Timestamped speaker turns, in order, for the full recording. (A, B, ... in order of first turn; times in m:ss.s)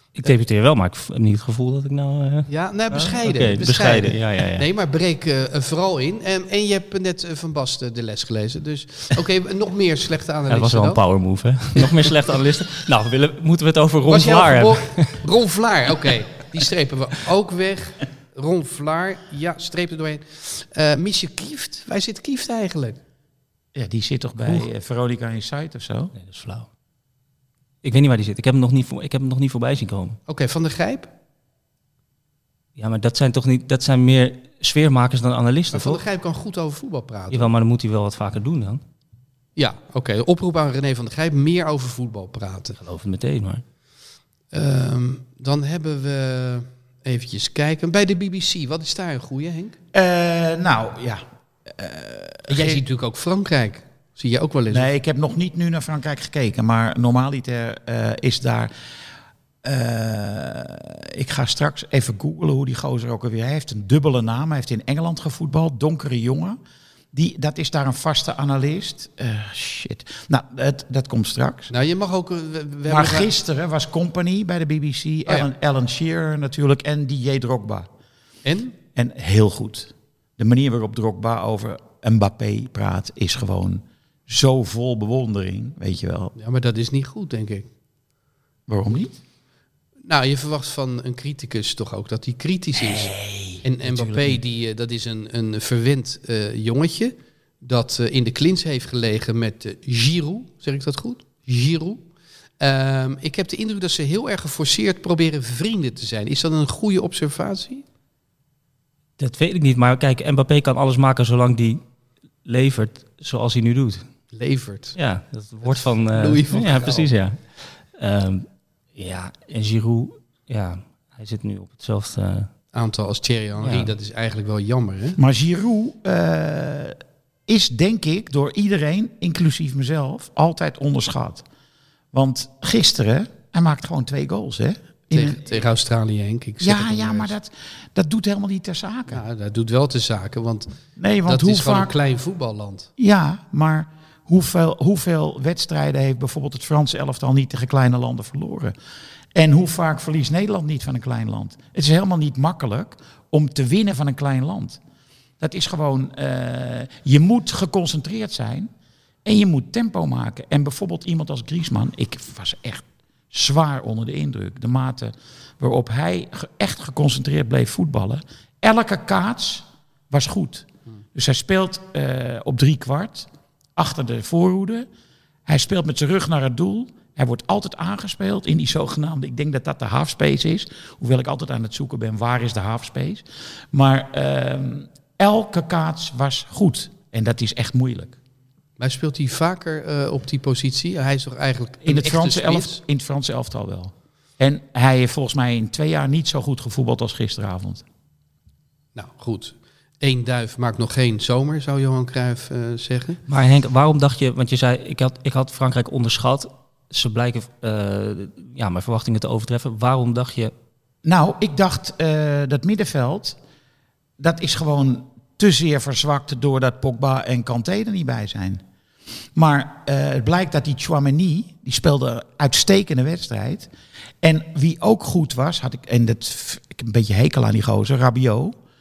0:00.2-0:04.6 A
0:02.5-0:11.0 B
0:10.5-0:15.2 A
0:11.8-0:12.1 B
0:14.0-0:23.0 B
0:23.7-0:26.1 C
0:24.4-0:24.7 A
0:26.2-0:26.7 A
0:27.8-0:30.2 A
0:30.3-0:31.1 B
0:32.8-0:36.0 A
0:35.7-0:37.5 B
0:37.3-0:38.8 A
0:39.6-0:42.8 B
0:42.8-0:43.6 A
0:44.5-0:49.8 B
0:49.9-0:52.8 C
0:52.5-0:54.9 B
0:54.7-0:58.7 C
0:59.6-1:06.6 C
1:07.1-1:11.7 C
1:11.7-1:13.3 B
1:12.9-1:17.9 C
1:18.4-1:18.8 B
1:18.9-1:26.3 C
1:26.4-1:27.7 B
1:28.7-1:29.2 C
1:30.1-1:42.0 B
1:32.8-1:34.4 C
1:42.6-1:47.8 B
1:49.2-1:51.8 A
1:52.4-1:54.0 A
1:54.3-1:55.0 B
1:55.0-2:02.5 A
1:55.6-1:57.1 B
2:02.7-2:05.2 B
2:03.6-2:03.9 A
2:05.2-2:11.4 C
2:12.1-2:15.6 C
2:15.1-2:17.3 B
2:16.6-2:19.2 C
2:19.1-2:22.9 B
2:21.0-2:21.9 C
2:23.0-2:28.7 C
2:29.3-2:34.8 C
2:35.4-2:38.7 C
2:39.2-2:54.9 C
2:55.4-3:08.2 C
3:08.8-3:12.8 B
3:11.8-3:17.8 C
3:19.0-3:23.2 B
3:23.3-3:30.5 A
3:31.0-3:33.4 C
3:34.2-3:38.6 C
3:39.4-3:43.7 C
3:44.2-3:48.6 C